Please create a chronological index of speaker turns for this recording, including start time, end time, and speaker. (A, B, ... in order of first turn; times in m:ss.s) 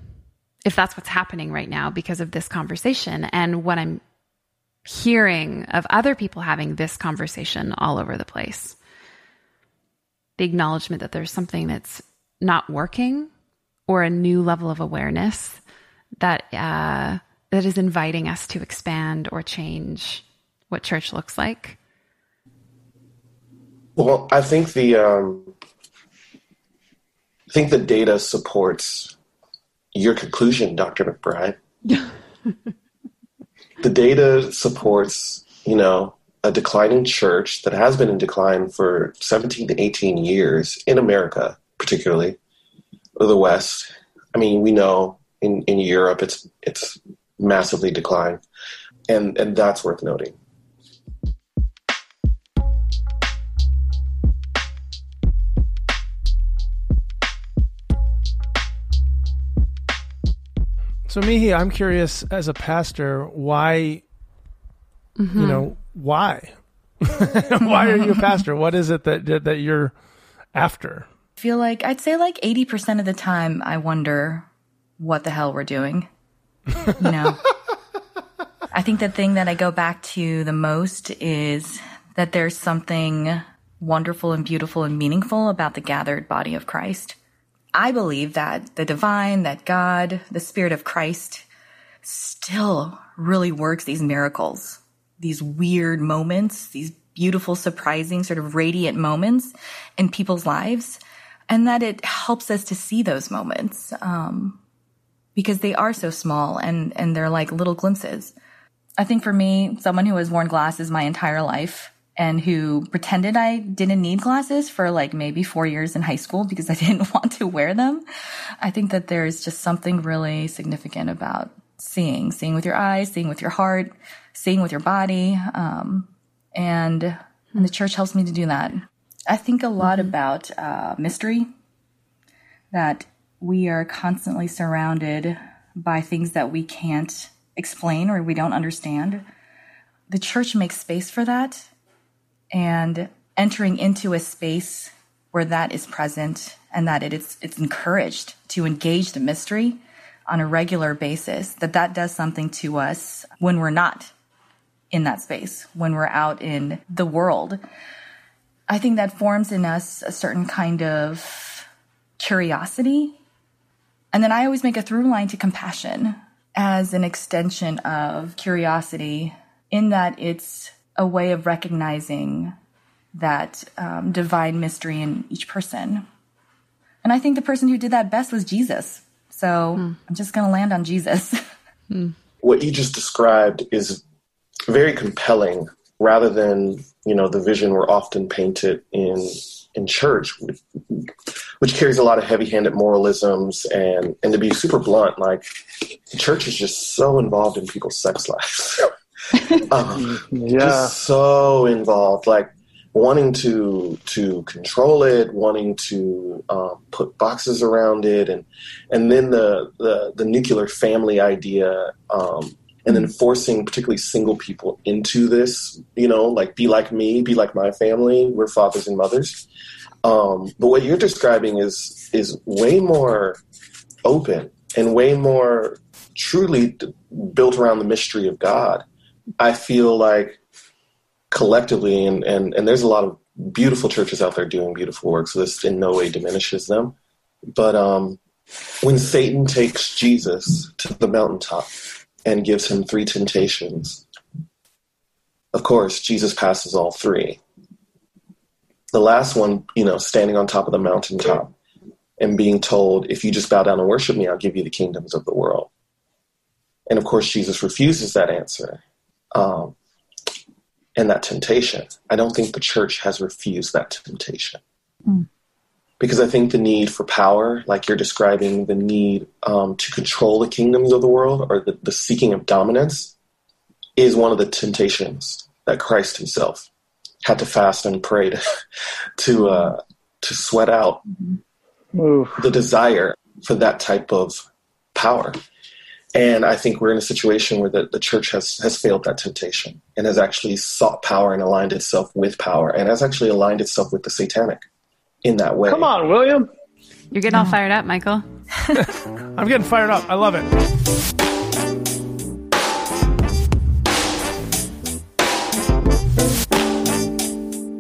0:00.6-0:04.0 A
0:04.9-0:08.8 A
0:10.4-0:13.3 A
0:13.9-0:15.6 A
0:16.2-0:21.8 A
0:24.0-0:25.5 B
0:27.5-0:29.2 B
0:29.9-0:31.6 B
0:33.8-0:42.4 B
0:43.2-0:48.4 B
0:49.1-0:50.4 B
1:01.1-1:04.0 C
1:05.2-1:05.7 A
1:05.3-1:09.9 C
1:07.6-1:08.3 D
1:10.5-1:11.1 C
1:11.4-1:14.5 D
1:15.0-1:16.1 D
1:16.9-1:17.4 D
1:18.7-1:27.2 D
1:27.7-1:31.4 D
1:32.0-1:44.6 D
1:45.4-1:48.3 D
1:49.0-1:58.0 D
1:58.6-2:11.5 D
2:09.8-2:10.1 A
2:12.7-2:19.3 D
2:20.1-2:21.7 D
2:22.5-2:34.1 D
2:34.9-2:37.6 D
2:38.7-2:41.7 D
2:42.2-2:43.2 D
2:44.1-2:52.6 D
2:53.2-2:56.1 D
2:57.0-3:01.4 D
3:02.4-3:04.0 B
3:04.7-3:15.5 B
3:16.1-3:18.9 B
3:19.7-3:39.4 B
3:19.8-3:21.0 E
3:40.0-3:43.4 B
3:44.0-3:48.9 B
3:49.4-3:50.4 B
3:51.3-3:57.0 B
3:57.5-3:58.2 B
3:58.8-4:01.7 B
4:02.2-4:04.0 B
4:05.5-4:07.4 B
4:08.9-4:11.5 B
4:12.2-4:15.7 B
4:16.9-4:18.8 B
4:19.3-4:19.8 B
4:21.0-4:24.6 B
4:26.0-4:33.1 B
4:34.0-4:36.7 B
4:37.2-4:38.4 B
4:39.2-4:41.0 B
4:41.9-4:42.6 E
4:42.4-4:45.4 B
4:46.2-4:54.6 B
4:55.2-4:55.9 B
4:55.7-4:56.5 E
4:57.1-4:58.2 A
4:58.7-5:00.5 C